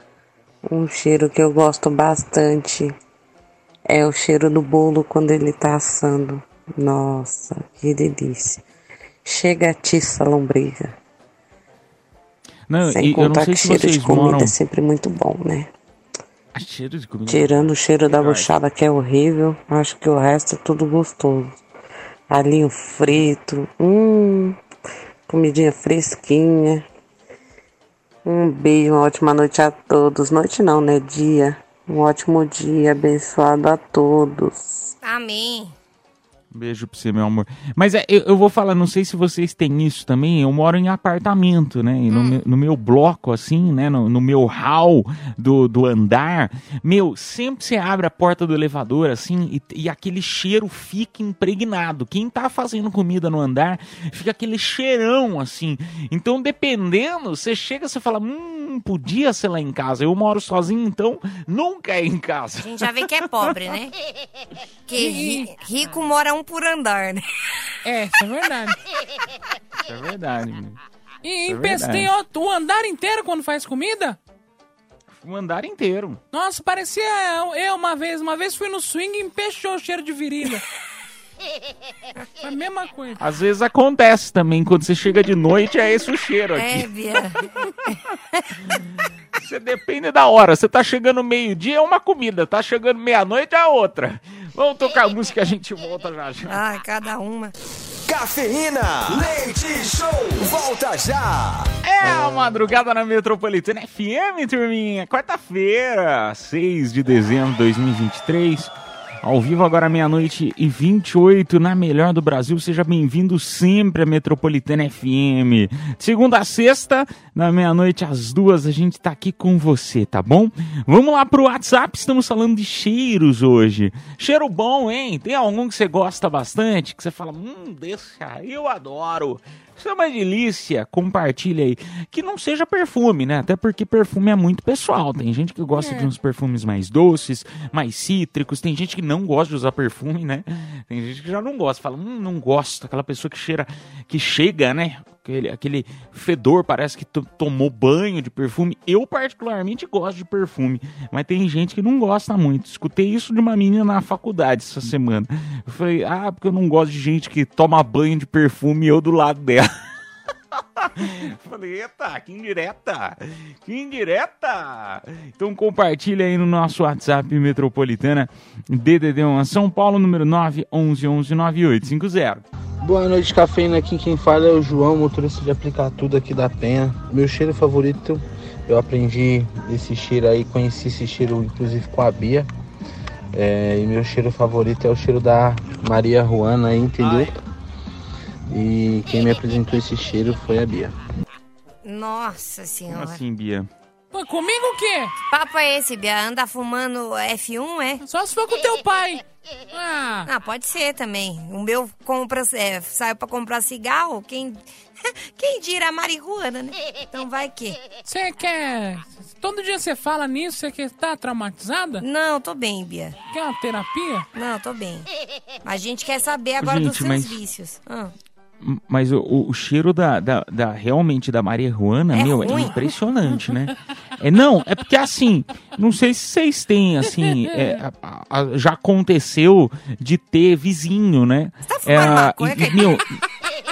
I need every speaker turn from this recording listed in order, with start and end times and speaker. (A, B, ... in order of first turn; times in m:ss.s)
0:00.6-0:02.9 A
0:03.9-0:08.6 A
0:09.2-0:11.0 A
0:12.7-0:14.5 B
0:12.8-0:15.7 A
0:16.5-0:18.5 B
0:17.3-0:21.5 A
0:22.3-0:24.6 A
0:25.3-0:26.8 A
0:28.2-0:34.9 A
0:35.0-0:35.7 C
0:36.5-1:03.5 B
0:42.1-0:42.4 C
1:02.6-1:03.9 C
1:04.9-1:07.2 C
1:05.0-1:05.5 D
1:07.8-1:08.8 D
1:09.8-1:10.8 B
1:11.2-1:14.2 D
1:11.5-1:12.1 B
1:15.2-1:16.2 B
1:16.3-1:20.6 D
1:22.4-1:23.2 D
1:23.2-1:26.9 B
1:26.6-1:28.6 C
1:29.3-1:36.6 B
1:36.5-1:37.5 C
1:38.0-1:41.7 E
1:41.8-2:39.7 B
2:15.8-2:16.1 D
2:40.5-2:52.4 B
2:52.8-3:02.5 F
3:03.3-3:07.4 F
3:08.5-3:10.9 F
3:11.8-3:13.2 C
3:12.9-3:13.7 B
3:14.1-3:15.1 D
3:15.3-3:18.0 C
3:18.0-3:20.3 D
3:20.2-3:27.8 C
3:28.0-3:32.0 D
3:32.0-3:33.1 C
3:33.3-3:34.2 D
3:34.3-3:35.1 C
3:35.6-3:38.1 C
3:36.6-3:37.4 B
3:38.6-3:53.2 B
3:42.1-3:42.7 C
3:51.7-3:53.0 C